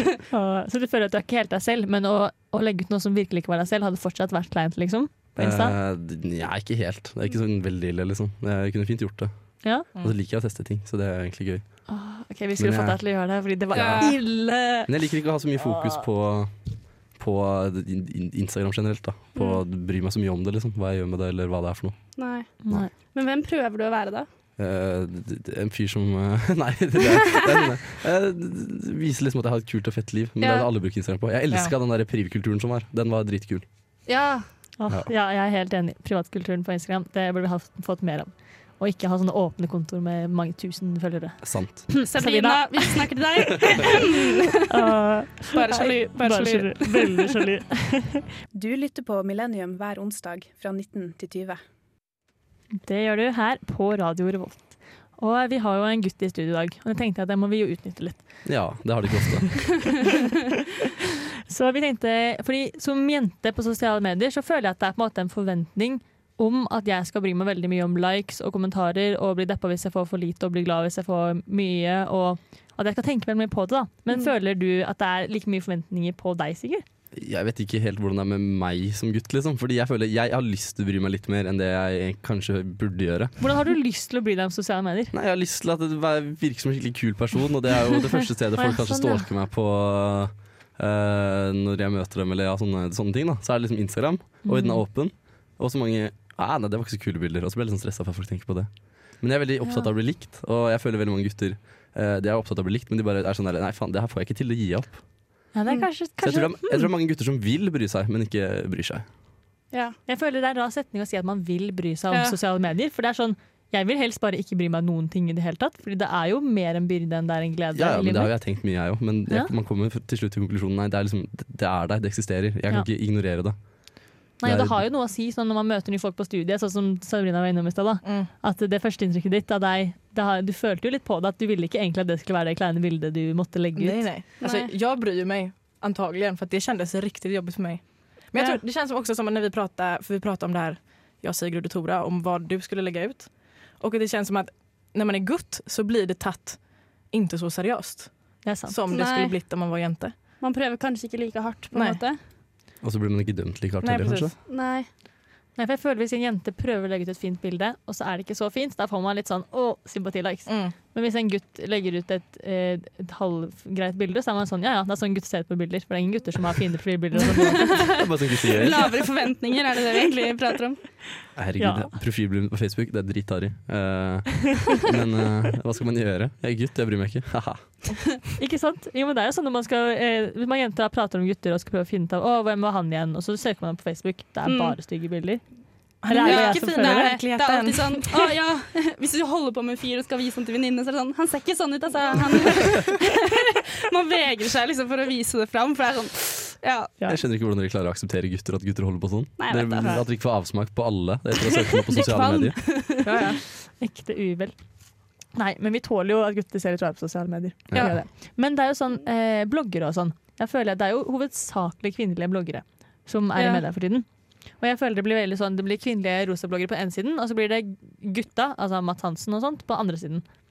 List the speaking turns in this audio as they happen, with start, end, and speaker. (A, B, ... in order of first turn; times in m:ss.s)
0:00.3-0:05.8 A
0:05.4-0:12.0 B
0:09.6-0:09.9 A
0:11.9-0:14.9 A
0:12.6-0:22.9 B
0:13.8-0:14.2 C
0:15.6-0:16.0 A
0:19.4-0:19.6 C
0:22.2-0:24.3 C
0:22.6-0:22.9 A
0:24.6-0:33.7 B
0:30.4-0:30.7 C
0:34.1-0:34.7 C
0:34.8-0:43.0 A
0:41.4-0:42.0 B
0:42.0-0:44.2 C
0:44.7-0:48.2 A
0:45.5-0:47.3 C
0:48.5-0:51.6 D
0:52.8-0:58.9 A
0:58.4-0:59.9 B
1:01.5-1:16.8 A
1:17.1-1:23.4 B
1:23.4-1:25.1 A
1:25.1-1:45.5 B
1:28.6-1:29.3 A
1:34.4-1:34.8 A
1:39.6-1:39.9 A
1:45.5-1:46.9 A
1:46.2-1:49.1 B
1:49.7-1:50.0 C
1:50.1-1:59.5 A
1:52.1-1:52.4 C
1:57.7-2:04.8 B
2:04.4-2:14.1 A
2:08.0-2:08.3 E
2:13.8-2:30.2 E
2:14.4-2:14.7 C
2:18.4-2:18.6 C
2:28.4-2:28.8 A
2:28.9-2:29.4 C
2:30.4-2:32.2 C
2:31.7-2:32.0 E
2:32.8-2:34.3 B
2:33.8-2:34.4 E
2:34.5-2:34.9 C
2:35.6-2:48.0 A
2:40.5-2:40.8 E
2:47.8-2:48.8 B
2:48.4-2:51.0 C
2:51.4-2:58.0 B
2:51.6-2:52.0 A
2:58.4-3:07.1 A
3:04.4-3:04.8 C
3:06.0-3:08.1 E
3:06.2-3:13.1 C
3:13.9-3:16.9 C
3:17.1-3:22.9 B
3:19.4-3:19.9 C
3:22.0-3:23.2 C
3:23.0-3:23.4 E
3:23.7-3:40.2 A
3:27.7-3:28.0 B
3:27.8-3:28.0 C
3:33.4-3:33.6 C